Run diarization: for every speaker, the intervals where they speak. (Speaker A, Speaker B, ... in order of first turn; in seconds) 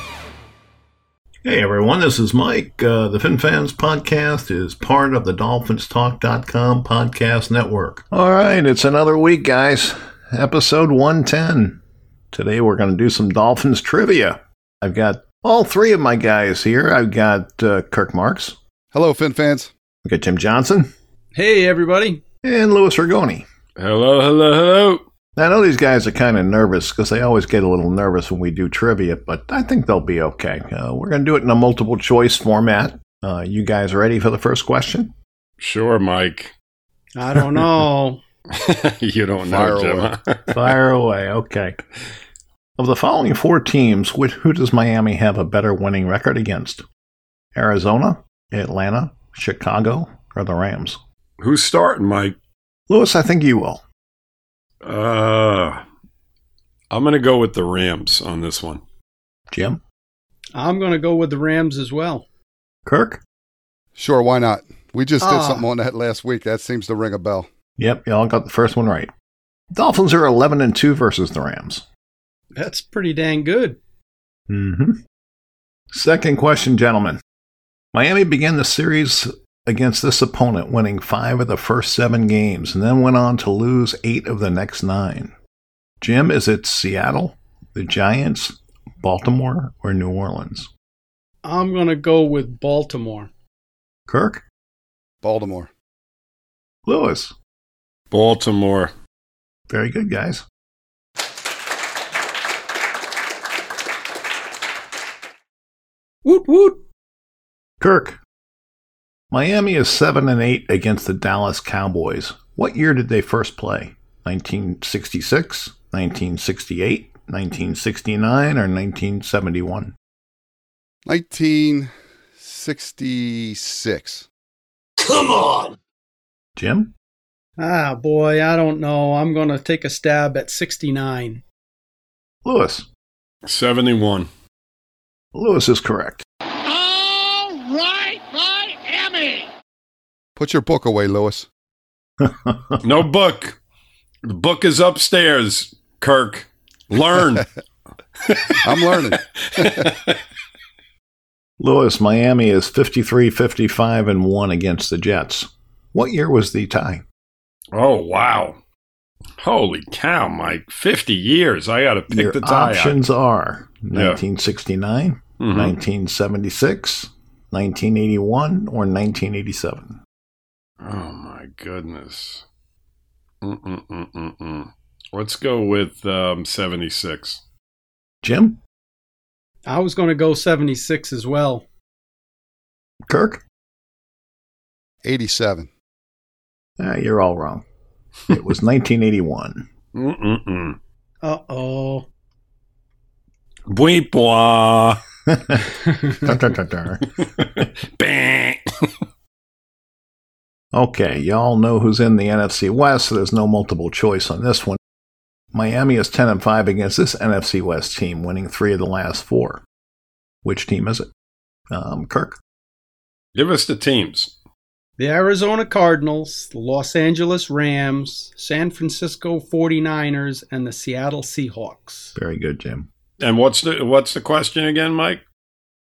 Speaker A: 1.4-11.8, 12.3-18.6, 20.0-20.9, 22.4-23.4, 25.4-35.1, 40.5-41.8, 42.8-46.8, 47.5-51.0, 52.9-53.8, 59.5-59.8, 62.8-63.2, 67.8-69.1, 69.7-71.8, 74.5-75.0, 75.9-77.2, 77.9-85.3, 86.0-90.7, 94.1-94.4, 96.8-97.3, 99.7-100.4, 107.8-108.2, 109.3-119.9, 126.5-126.9, 132.4-132.9, 135.3-136.2, 142.2-142.8, 151.6-157.0, 162.1-170.0, 178.2-178.6, 183.1-183.4, 186.8-187.6, 188.3-189.7, 195.3-197.1, 200.7-204.8, 205.5-209.6, 210.4-211.1, 211.7-212.4, 222.1-222.9
Speaker B: 18.9-19.7, 39.4-40.1, 64.0-67.5, 95.2-95.7, 121.0-124.3, 140.4-141.5, 148.6-149.9, 185.0-185.7
Speaker C: 21.3-22.2, 37.1-38.2, 60.5-62.2, 65.2-65.6, 72.5-73.8, 91.4-93.3, 106.2-106.8, 127.6-131.4, 179.7-181.6, 191.2-192.1, 215.0-222.1
Speaker D: 23.8-25.0, 35.6-36.5, 38.5-40.7, 51.4-52.3, 54.8-55.8, 56.9-58.8, 98.1-98.9, 133.4-134.3, 142.8-143.6, 144.2-147.5, 148.2-150.2, 157.7-158.6, 159.4-163.1, 163.9-164.2, 165.4-165.8, 170.8-172.4, 173.4-177.4, 189.9-190.8, 193.7-195.0, 197.2-198.9, 213.3-214.3, 223.2-225.2
Speaker E: 136.6-139.5